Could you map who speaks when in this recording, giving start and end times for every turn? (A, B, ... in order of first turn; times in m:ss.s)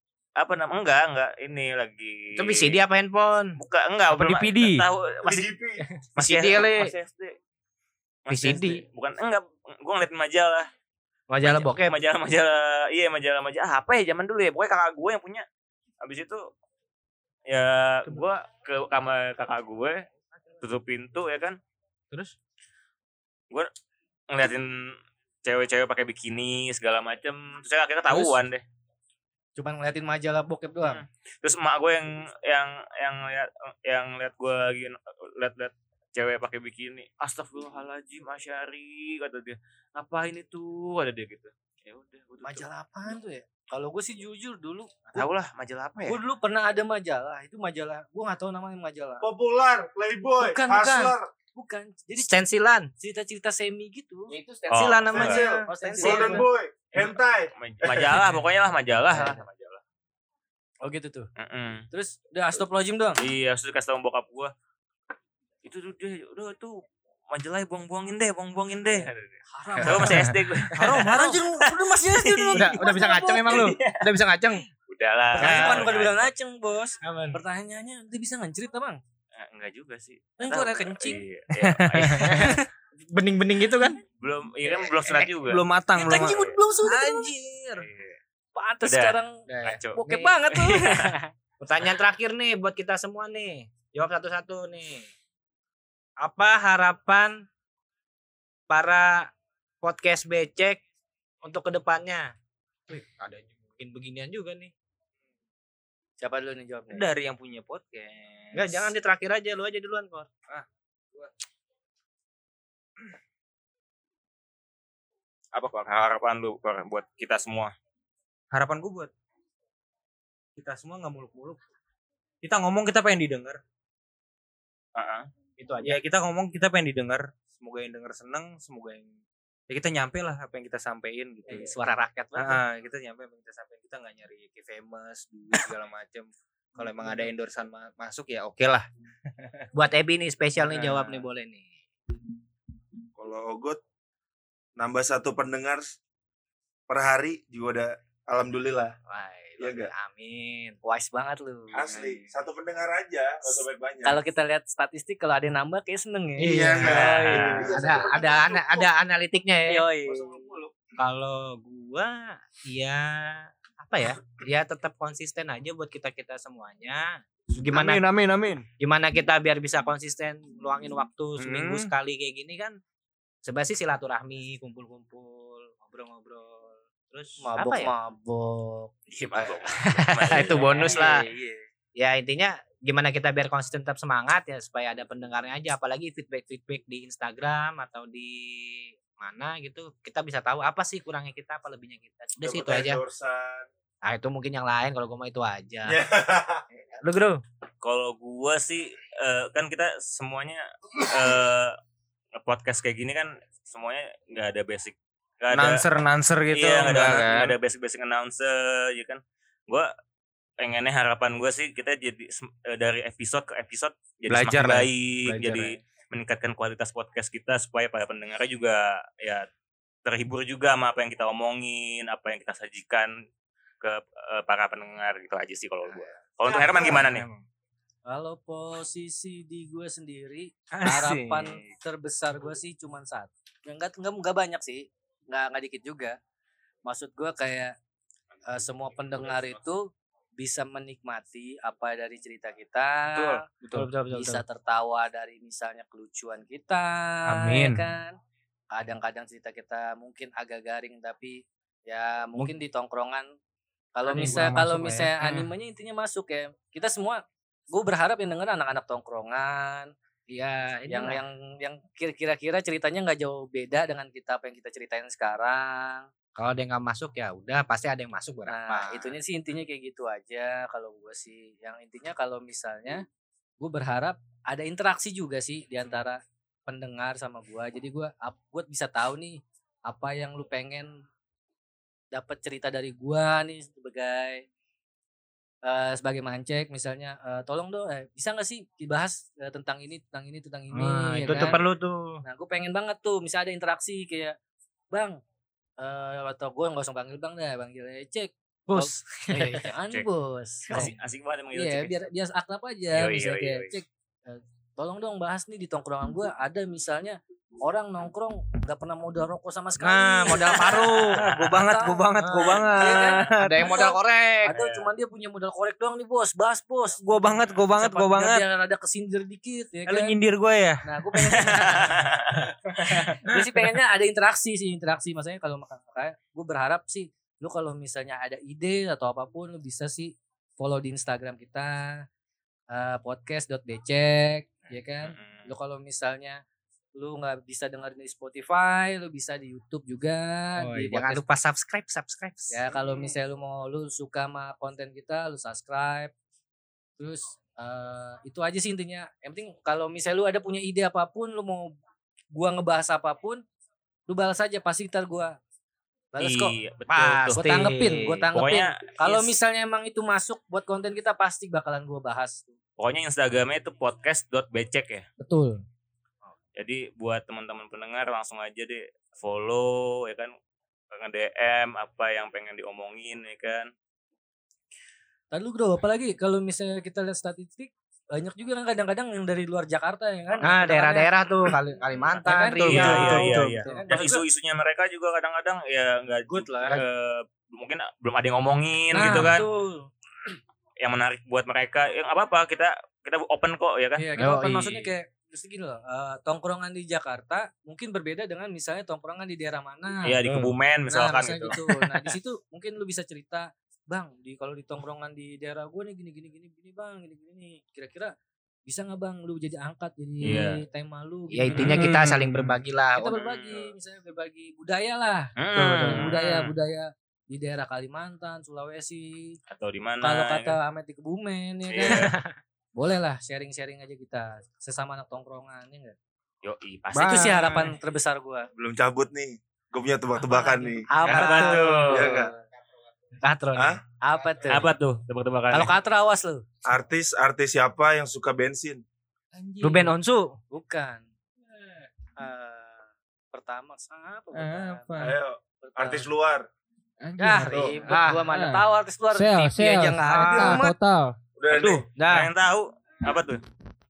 0:00.4-0:02.8 A
0:02.4-0:03.6 B
0:03.6-0:05.5 A
0:04.1-0:04.9 C
0:05.2-0:05.8 D
0:06.2-0:07.4 A
0:06.2-0:06.9 B
0:08.3-0:10.7 A
0:08.3-0:08.8 B
0:11.3-0:12.0 B
0:11.4-0:15.5 A
0:16.0-0:16.5 A
0:17.5-0:20.0 A
0:20.6-0:21.6 A
0:24.3-0:28.6 A
0:28.1-0:28.4 E
0:29.6-0:31.0 E
0:30.8-0:42.7 A
0:42.4-0:45.0 E
0:45.1-0:46.2 A
0:46.1-0:49.2 E
0:49.2-0:51.3 D
0:50.4-0:52.4 E
0:52.2-0:52.9 B
0:53.0-0:54.4 E
0:54.3-0:56.5 B
0:54.7-0:55.4 A
0:55.1-0:58.3 D
0:55.7-0:56.5 E
0:56.9-0:59.8 A
0:59.1-0:59.4 E
1:00.8-1:01.3 E
1:01.4-1:01.9 A
1:01.9-1:03.2 E
1:03.2-1:04.5 A
1:05.6-1:12.8 A
1:09.5-1:10.4 E
1:09.8-1:11.1 B
1:10.7-1:11.6 C
1:10.9-1:13.8 E
1:12.5-1:14.6 B
1:13.4-1:14.1 A
1:14.9-1:16.3 A
1:15.4-1:15.9 B
1:15.4-1:19.0 E
1:17.0-1:17.4 B
1:19.4-1:22.6 A
1:20.4-1:21.2 E
1:21.9-1:24.0 B
1:22.0-1:22.4 C
1:22.1-1:22.6 E
1:24.2-1:26.6 A
1:24.7-1:25.3 B
1:25.4-1:27.9 C
1:26.0-1:27.3 E
1:27.8-1:28.2 A
1:28.6-1:31.3 E
1:28.8-1:31.2 A
1:29.5-1:30.4 B
1:31.6-1:35.1 B
1:36.2-1:37.4 B
1:38.7-1:39.3 B
1:39.8-1:40.8 B
1:41.4-1:42.3 B
1:42.9-1:44.7 B
1:46.2-1:47.1 E
1:46.9-1:48.8 C
1:48.5-1:50.3 B
1:50.5-1:51.3 C
1:55.5-1:57.7 A
1:58.5-1:59.1 C
2:00.6-2:01.6 C
2:02.4-2:03.6 C
2:05.0-2:05.3 A
2:05.6-2:06.0 B
2:05.8-2:09.2 C
2:09.7-2:11.8 C
2:11.5-2:12.6 B
2:12.4-2:18.9 C
2:19.7-2:21.7 B
2:20.7-2:21.2 C
2:23.2-2:23.8 D
2:24.8-2:26.0 D
2:26.9-2:29.0 D
2:29.1-2:30.8 B
2:29.6-2:29.9 D
2:30.8-2:32.3 E
2:31.7-2:34.2 D
2:34.0-2:38.0 E
2:36.4-2:37.1 B
2:36.5-2:38.9 D
2:37.2-2:37.7 A
2:37.7-2:39.9 B
2:39.7-2:40.5 E
2:40.1-2:40.7 D
2:41.0-2:48.0 B
2:47.7-2:48.7 C
2:48.8-2:52.8 B
2:51.4-2:51.9 C
2:53.4-2:57.9 B
2:57.4-2:58.9 E
2:59.1-3:01.2 A
2:59.4-3:01.3 B
3:00.6-3:01.6 C
3:02.0-3:13.0 B
3:12.4-3:13.7 D
3:14.0-3:16.0 B
3:15.9-3:16.6 D
3:17.0-3:17.4 B
3:17.8-3:21.8 A
3:22.4-3:25.8 A
3:25.5-3:27.6 C
3:26.5-3:29.9 A
3:30.6-3:39.5 A
3:34.3-3:34.9 C
3:35.3-3:35.8 B
3:40.0-3:43.1 A
3:43.8-3:47.3 A
3:46.5-3:47.4 C
3:48.1-3:56.2 E
3:50.7-3:51.6 C
3:56.9-3:57.8 E
3:58.5-4:03.4 E
3:59.1-3:59.6 A
4:03.1-4:03.9 C
4:03.7-4:04.4 B
4:04.1-4:08.2 E
4:07.3-4:07.9 C
4:08.7-4:13.3 E
4:14.0-4:19.9 E
4:14.1-4:15.5 C
4:20.3-4:21.2 B
4:20.9-4:26.1 E
4:26.4-4:29.2 B
4:28.5-4:33.0 E
4:33.6-4:41.0 E
4:42.1-4:44.4 E
4:45.6-4:51.6 E
4:50.7-4:52.2 B
4:52.2-4:54.4 E
4:54.9-4:55.2 E
4:55.8-5:00.9 E
4:58.7-4:59.7 B
5:00.7-5:02.1 A
5:01.5-5:20.2 E
5:02.9-5:03.8 A
5:09.8-5:11.2 B
5:11.0-5:13.7 C
5:12.2-5:14.5 B
5:14.5-5:14.9 A
5:17.0-5:18.4 C
5:19.9-5:21.5 C
5:20.8-5:22.1 E
5:21.4-5:22.5 A
5:22.7-5:32.1 E
5:22.8-5:23.6 C
5:32.7-5:36.4 E
5:35.0-5:35.5 A
5:37.0-5:41.2 E
5:40.6-5:42.6 B
5:42.5-5:46.1 E
5:42.8-5:43.1 A
5:47.0-5:51.7 E
5:52.3-5:53.4 E
5:54.1-5:55.4 E
5:56.1-5:56.6 E
5:56.2-5:59.4 A
5:56.9-5:58.3 B
5:57.3-6:02.5 E
6:02.8-6:05.1 A
6:05.2-6:05.6 E
6:06.6-6:10.3 A
6:10.9-6:13.7 A
6:15.3-6:21.1 E
6:20.4-6:23.9 B
6:22.1-6:24.2 E
6:22.6-6:29.5 A
6:22.8-6:23.1 C
6:26.3-6:26.8 E
6:28.9-6:29.9 E
6:29.0-6:29.4 B
6:30.8-6:34.1 A
6:34.0-6:40.2 E
6:34.2-6:34.9 B
6:40.0-6:41.6 A
6:40.2-6:40.5 B
6:40.9-6:48.1 E
6:48.7-6:51.9 E
6:50.2-6:50.6 A
6:51.3-6:53.2 B
6:51.6-6:52.5 C
6:53.0-6:59.4 E
6:53.1-6:53.7 A
6:55.4-6:56.5 A
6:55.6-6:56.1 B
6:59.5-7:00.6 A
7:00.0-7:02.1 E
7:01.7-7:02.2 A
7:01.9-7:02.3 B
7:02.8-7:06.0 E
7:06.4-7:07.7 A
7:07.0-7:08.5 E
7:07.0-7:07.5 B
7:08.6-7:12.3 D
7:10.2-7:12.4 E
7:10.9-7:12.3 B
7:11.0-7:12.1 A
7:13.2-7:13.8 B
7:13.6-7:13.8 D
7:14.0-7:14.7 E
7:14.5-7:15.8 A
7:15.5-7:16.4 E
7:16.6-7:18.8 D
7:19.4-7:19.9 E
7:19.4-7:19.9 C
7:19.6-7:20.4 B
7:20.5-7:21.1 E
7:22.2-7:25.0 E
7:24.3-7:25.2 C
7:25.0-7:26.5 D
7:25.6-7:26.1 E
7:27.0-7:27.8 C
7:27.2-7:30.7 E
7:27.5-7:27.8 D
7:27.8-7:28.2 B
7:28.3-7:31.2 C
7:29.7-7:30.7 B
7:31.4-7:31.8 D
7:31.5-7:32.3 B
7:32.1-7:33.4 A